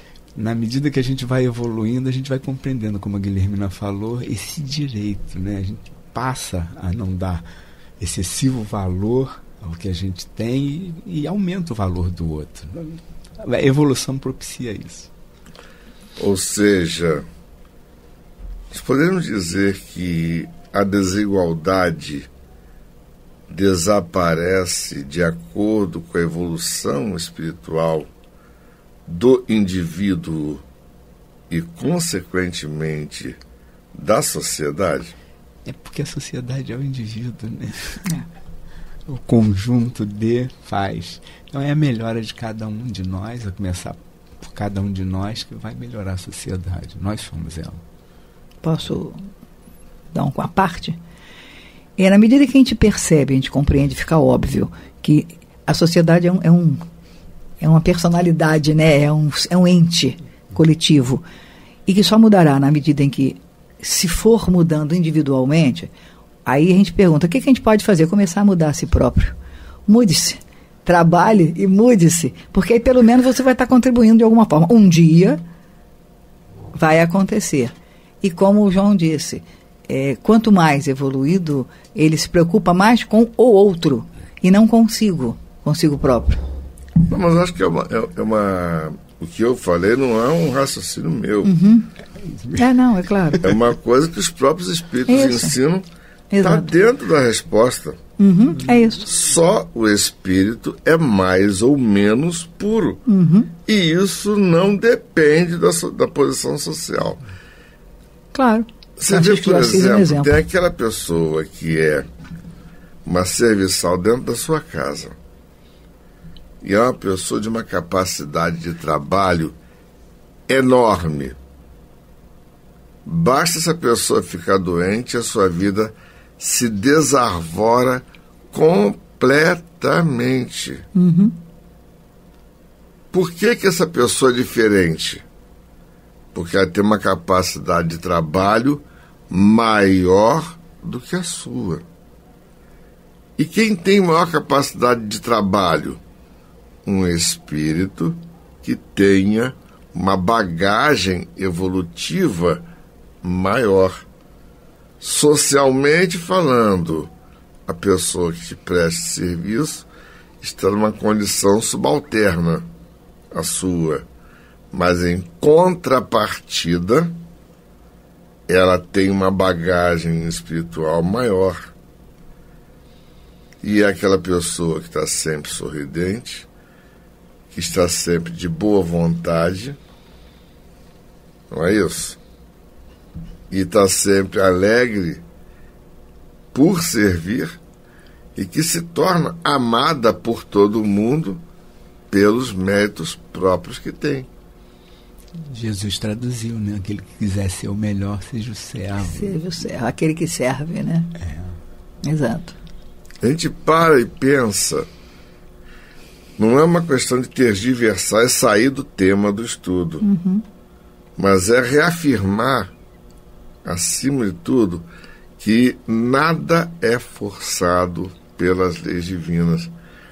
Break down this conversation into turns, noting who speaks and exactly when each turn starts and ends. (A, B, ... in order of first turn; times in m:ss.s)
0:00.4-0:07.4 A
0:08.0-0:15.1 A
0:16.2-0:17.2 B
0:18.7-0:22.3 B
0:23.5-0:28.1 B
0:29.1-0:30.6 B
0:31.5-0:33.4 B
0:33.9-0:35.1 B
0:35.6-0:38.1 A
0:39.1-0:47.8 A
0:48.6-0:49.3 C
0:50.1-0:51.0 C
0:52.0-0:56.8 C
0:57.6-1:01.2 C
1:01.9-1:05.9 C
1:06.5-1:09.4 C
1:09.9-1:15.4 C
1:16.7-1:26.4 C
1:27.0-1:31.5 B
1:31.4-1:31.9 C
1:32.5-1:33.4 C
1:33.4-1:35.8 B
1:35.1-1:35.6 C
1:36.3-1:36.7 C
1:36.4-1:38.0 B
1:38.2-1:39.1 C
1:39.1-1:43.0 B
1:43.1-1:43.5 C
1:43.6-1:47.2 B
1:48.3-1:50.4 C
1:49.0-1:52.1 B
1:53.0-1:55.2 B
1:56.6-1:59.6 B
2:00.5-2:01.4 B
2:03.1-2:10.9 B
2:11.0-2:11.3 C
2:13.1-2:15.2 B
2:16.3-2:21.8 B
2:23.4-2:26.0 B
2:26.8-2:32.7 B
2:33.2-2:34.0 B
2:35.0-2:37.1 B
2:37.7-2:39.9 B
2:40.4-2:42.7 B
2:43.3-2:44.1 B
2:44.7-2:47.2 B
2:48.5-2:51.7 B
2:53.6-2:56.5 B
2:57.5-2:59.8 B
3:01.5-3:02.2 B
3:03.5-3:05.2 B
3:06.5-3:07.6 B
3:08.4-3:11.4 B
3:12.1-3:14.3 B
3:15.3-3:19.4 A
3:19.0-3:21.1 C
3:21.2-3:21.5 A
3:22.0-3:22.6 C
3:23.2-3:24.9 B
3:26.4-3:30.0 B
3:30.0-3:30.4 C
3:31.2-3:32.7 B
3:33.6-3:34.9 B
3:35.4-3:39.7 B